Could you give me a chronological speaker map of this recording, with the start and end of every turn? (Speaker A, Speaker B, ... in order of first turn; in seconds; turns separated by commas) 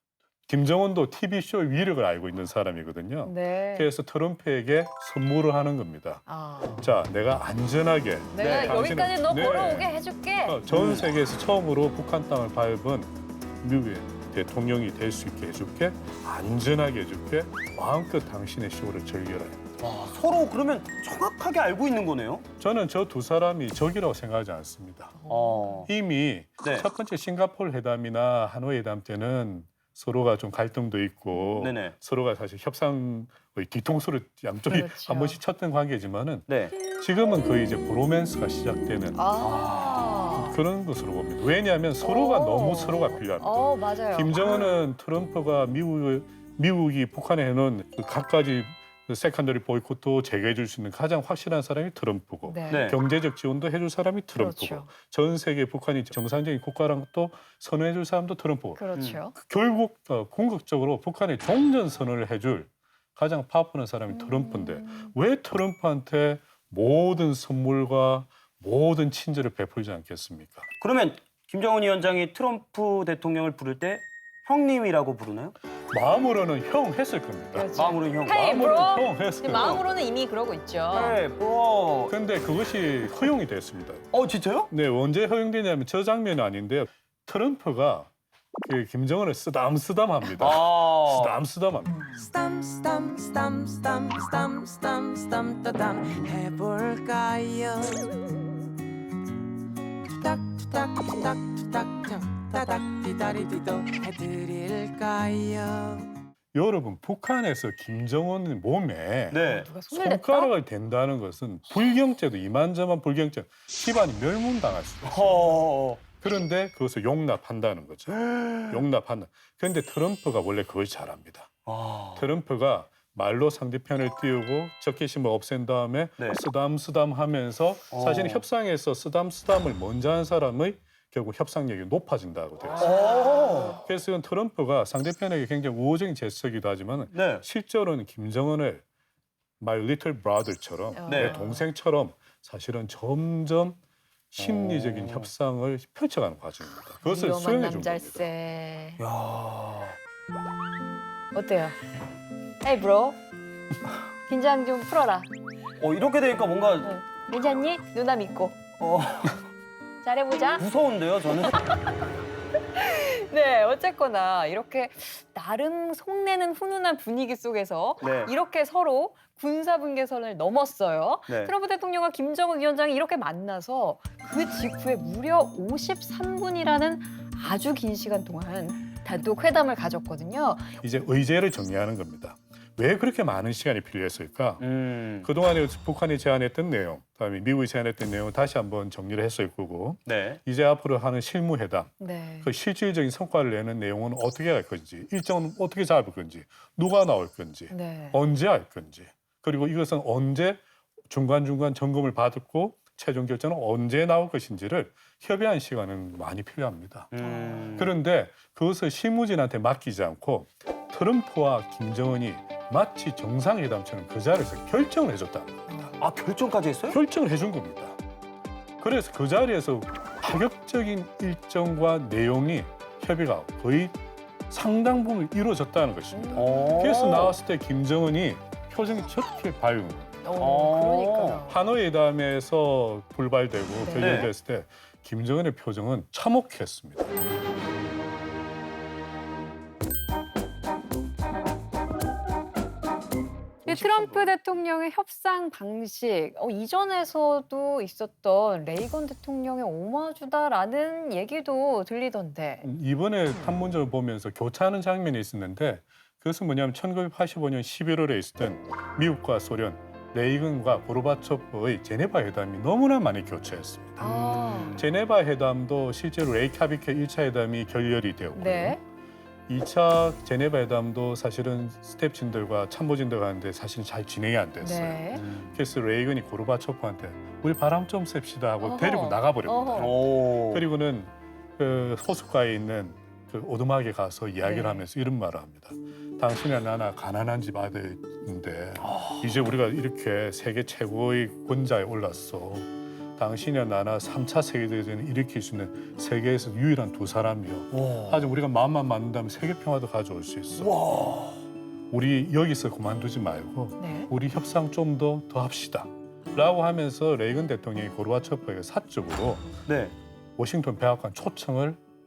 Speaker A: 0.5-6.2, Speaker B: 3.2-3.9, Speaker B: 6.3-6.9, Speaker A: 6.8-19.6, Speaker B: 8.3-10.6, Speaker C: 8.4-8.8, Speaker C: 10.7-11.1, Speaker C: 19.8-22.4, Speaker A: 22.6-25.2, Speaker B: 25.1-25.9, Speaker C: 25.3-25.9, Speaker A: 25.9-39.2, Speaker C: 26.6-26.9, Speaker C: 31.6-31.9, Speaker B: 34.6-35.4, Speaker C: 36.5-36.8, Speaker B: 39.1-40.5, Speaker C: 39.4-40.4, Speaker A: 40.4-70.7, Speaker B: 42.0-44.8, Speaker B: 52.4-52.9, Speaker C: 52.7-53.0, Speaker B: 54.3-54.9, Speaker B: 58.8-59.3, Speaker B: 64.1-65.1, Speaker C: 70.8-75.5, Speaker A: 75.9-77.7, Speaker B: 77.5-81.2, Speaker C: 77.7-78.7, Speaker A: 78.2-79.8, Speaker C: 79.5-79.8, Speaker C: 80.9-82.1, Speaker A: 82.1-84.0, Speaker C: 84.1-84.7, Speaker A: 84.7-88.1, Speaker A: 88.6-92.0, Speaker C: 90.4-91.4, Speaker D: 92.1-98.1, Speaker D: 100.1-106.1, Speaker A: 106.5-121.5, Speaker C: 109.3-109.7, Speaker B: 109.4-110.5, Speaker C: 115.0-116.0, Speaker C: 118.1-118.8, Speaker C: 121.7-122.2, Speaker A: 122.2-132.9, Speaker C: 127.9-128.4, Speaker C: 132.8-133.8, Speaker B: 133.0-133.6, Speaker A: 133.6-138.8, Speaker C: 137.1-137.4, Speaker A: 139.6-143.8, Speaker B: 140.9-141.7, Speaker C: 141.1-141.4, Speaker A: 144.3-148.3, Speaker C: 144.4-145.3, Speaker B: 147.0-149.0, Speaker C: 149.0-150.0, Speaker B: 151.3-151.8, Speaker B: 152.6-153.2, Speaker B: 154.3-155.3, Speaker C: 155.8-156.9, Speaker B: 156.8-158.6, Speaker C: 158.8-159.4, Speaker B: 160.0-160.7, Speaker C: 160.5-161.6, Speaker B: 161.5-161.9, Speaker B: 162.7-180.7, Speaker C: 168.0-168.3, Speaker C: 171.3-171.5, Speaker A: 180.8-184.7, Speaker C: 184.6-185.3, Speaker A: 185.2-207.1, Speaker C: 190.1-190.4, Speaker B: 192.0-192.5, Speaker B: 197.7-198.2, Speaker C: 207.1-207.9, Speaker B: 207.2-207.8, Speaker A: 207.8-215.9, Speaker C: 216.0-217.0, Speaker A: 216.9-218.0, Speaker A: 218.8-224.0, Speaker A: 224.5-230.1, Speaker B: 226.1-226.7, Speaker C: 226.3-227.3, Speaker B: 230.2-231.6, Speaker C: 230.3-231.5, Speaker A: 231.5-237.2, Speaker B: 233.8-234.3, Speaker C: 233.9-234.3, Speaker C: 243.6-244.3, Speaker B: 243.7-252.7, Speaker A: 252.6-264.1, Speaker B: 264.0-264.8, Speaker C: 264.0-264.9, Speaker A: 264.7-268.8, Speaker B: 268.3-268.8, Speaker A: 269.5-300.8, Speaker B: 274.6-275.2, Speaker C: 275.1-275.6, Speaker B: 278.6-280.0, Speaker C: 279.8-280.6, Speaker B: 284.4-284.8, Speaker C: 288.8-289.3, Speaker C: 297.7-298.3, Speaker C: 300.6-301.4, Speaker A: 301.9-309.5, Speaker B: 303.8-304.1, Speaker C: 309.7-309.9, Speaker A: 310.4-311.8